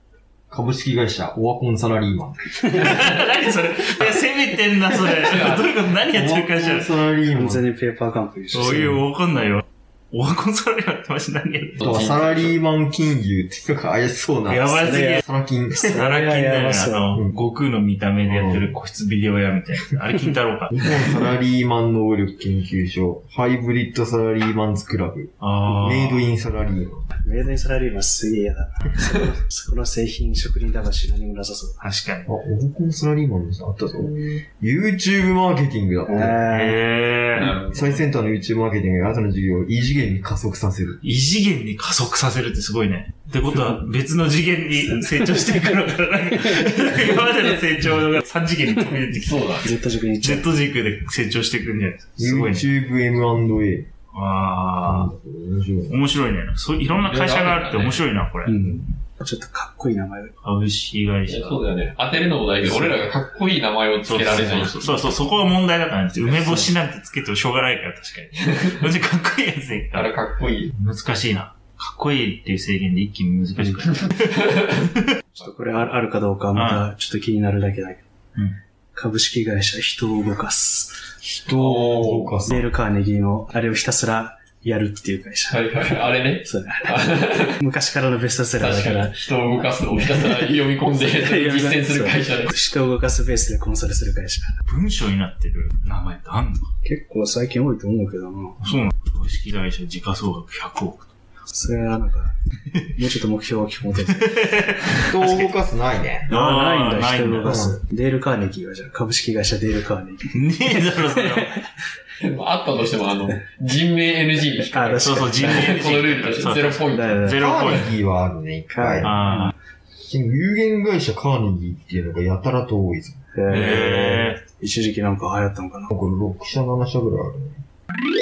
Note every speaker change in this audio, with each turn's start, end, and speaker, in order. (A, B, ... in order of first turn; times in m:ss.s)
0:00.5-0:02.8 A
0:02.7-0:06.9 B
0:05.2-0:05.8 C
0:06.1-0:07.7 A
0:07.4-0:09.1 D
0:08.5-0:11.8 B
0:11.8-0:12.5 C
0:11.8-0:16.0 A
0:14.5-0:15.2 B
0:14.9-0:15.2 D
0:15.8-0:20.9 B
0:15.8-0:17.2 D
0:18.2-0:18.8 A
0:20.7-0:27.1 A
0:25.4-0:26.2 B
0:27.2-0:31.8 D
0:31.8-0:32.3 B
0:32.3-0:36.4 A
0:36.1-0:36.8 D
0:36.5-0:37.6 B
0:37.4-0:38.0 C
0:37.6-0:41.0 A
0:41.0-0:49.5 B
0:44.9-0:45.8 D
0:46.4-0:46.8 D
0:49.2-0:49.7 C
0:49.6-0:50.5 D
0:50.2-0:52.7 B
0:52.2-0:53.9 A
0:54.1-0:55.1 B
0:54.8-0:56.0 A
0:55.9-0:58.6 B
0:56.9-0:58.1 C
0:58.4-1:00.4 D
1:00.4-1:01.7 B
1:01.3-1:05.1 C
1:02.6-1:03.1 B
1:04.0-1:10.2 B
1:09.9-1:10.7 C
1:10.7-1:15.1 B
1:13.6-1:13.9 D
1:14.2-1:14.7 C
1:15.4-1:18.0 D
1:16.5-1:16.9 B
1:18.9-1:21.0 D
1:21.2-1:22.7 A
1:21.6-1:22.4 C
1:22.4-1:25.7 D
1:25.5-1:27.6 C
1:26.4-1:27.0 D
1:27.6-1:29.2 D
1:28.6-1:32.6 C
1:31.0-1:34.6 D
1:34.7-1:36.7 B
1:36.8-1:38.6 D
1:38.6-1:41.1 B
1:41.5-1:42.3 D
1:43.0-1:44.3 D
1:44.0-1:45.5 B
1:45.1-1:46.3 A
1:46.3-1:47.6 B
1:46.3-1:51.6 D
1:47.4-1:47.8 A
1:50.3-1:51.6 B
1:52.2-1:57.3 C
1:54.6-1:55.8 D
1:55.0-1:58.0 B
1:56.9-1:57.4 D
1:57.4-1:59.2 A
1:58.7-1:59.5 D
1:59.0-1:59.5 B
2:00.1-2:03.2 A
2:03.3-2:05.9 D
2:03.5-2:04.4 B
2:05.9-2:07.6 A